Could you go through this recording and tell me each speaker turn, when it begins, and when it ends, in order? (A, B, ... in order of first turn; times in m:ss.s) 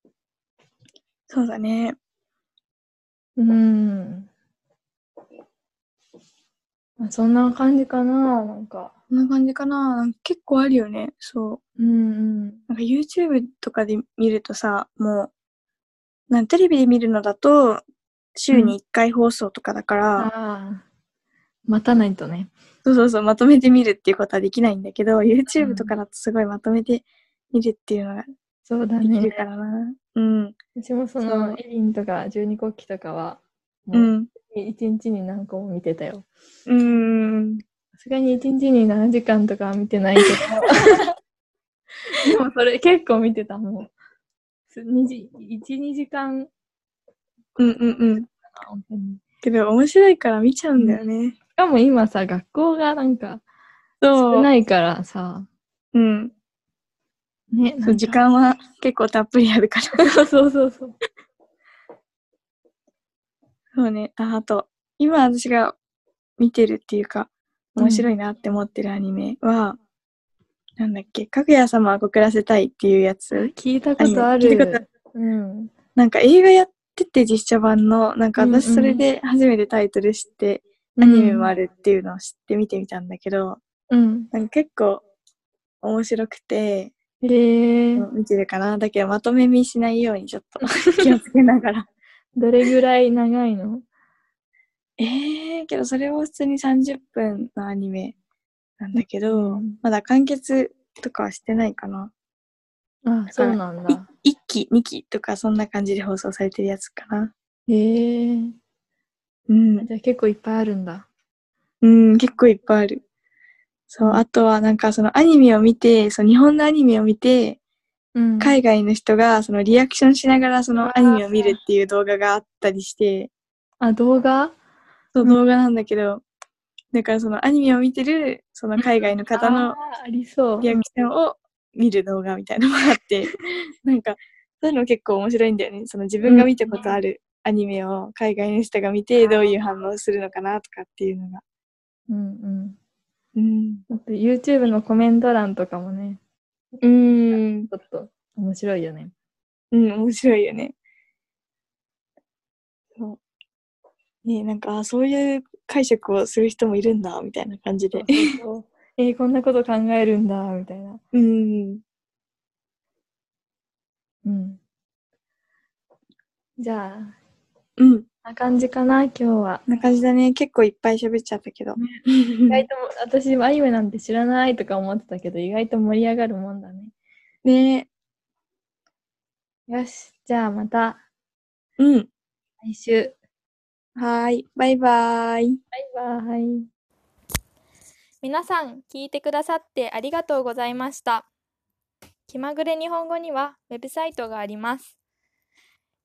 0:01.3-0:02.0 A
0:03.4-0:04.3 B
0:07.0-0:08.9 B
0:09.1-0:11.6 A
0:11.8-0:12.6 B
0:12.7-0:15.3 A
0:16.3-0:17.8 A
0:18.4-0:20.3 A
0:20.2-0:20.8 B
0:21.7-0:22.5 B
0:22.8-0:28.2 A
0:25.6-0:25.9 B
0:28.7-0:29.4 B
0:29.0-0:30.6 A
0:30.8-0:36.2 B
0:31.2-0:31.6 A
0:33.9-0:34.3 A
0:36.7-0:37.6 A
0:38.0-0:41.0 B
0:42.1-0:43.9 B
0:44.7-0:46.5 B
0:47.6-0:48.2 A
0:48.1-0:49.2 B
0:49.4-0:51.4 A
0:51.6-0:53.4 B
0:54.0-0:54.5 A
0:54.1-0:55.5 B
0:55.9-0:56.3 A
0:57.6-0:58.2 B
0:57.9-1:00.1 A
1:00.0-1:00.9 B
1:03.8-1:05.8 A
1:06.4-1:09.8 A
1:10.8-1:14.8 A
1:13.4-1:15.7 B
1:14.0-1:14.4 C
1:16.0-1:23.6 A
1:21.1-1:21.4 C
1:24.3-1:25.0 A
1:25.8-1:26.9 A
1:27.7-1:28.0 B
1:28.0-1:31.9 A
1:32.4-1:33.8 B
1:35.0-1:38.1 A
1:38.8-1:42.1 A
1:39.3-1:39.7 B
1:43.1-1:44.0 B
1:43.3-1:47.3 A
1:47.7-1:48.5 B
1:49.5-1:49.9 A
1:49.8-1:51.0 B
1:51.8-1:53.0 A
1:53.9-1:57.6 A
1:58.2-1:58.6 B
1:58.4-2:03.3 A
2:00.8-2:01.5 B
2:03.8-2:04.5 B
2:05.1-2:06.2 A
2:06.9-2:09.8 A
2:09.4-2:10.7 B
2:10.6-2:21.4 A
2:16.3-2:16.9 B
2:22.1-2:22.8 B
2:23.4-2:23.8 A
2:23.9-2:26.2 B
2:26.8-2:29.1 B
2:29.7-2:30.7 A
2:34.2-2:38.2 A
2:37.9-2:41.0 B
2:41.1-2:41.8 A
2:44.2-2:44.6 B
2:46.6-2:47.1 B
2:47.8-2:48.1 A
2:48.2-2:49.6 B
2:49.7-2:52.6 A
2:52.5-2:56.9 B
2:57.4-2:57.9 A
2:59.7-3:01.0 B
3:01.8-3:02.1 A
3:02.6-3:03.1 B
3:04.0-3:05.6 A
3:05.7-3:06.7 B
3:08.2-3:11.2 C
3:08.2-3:11.1 B
3:12.3-3:14.5 B
3:12.3-3:12.6 C
3:13.5-3:14.8 C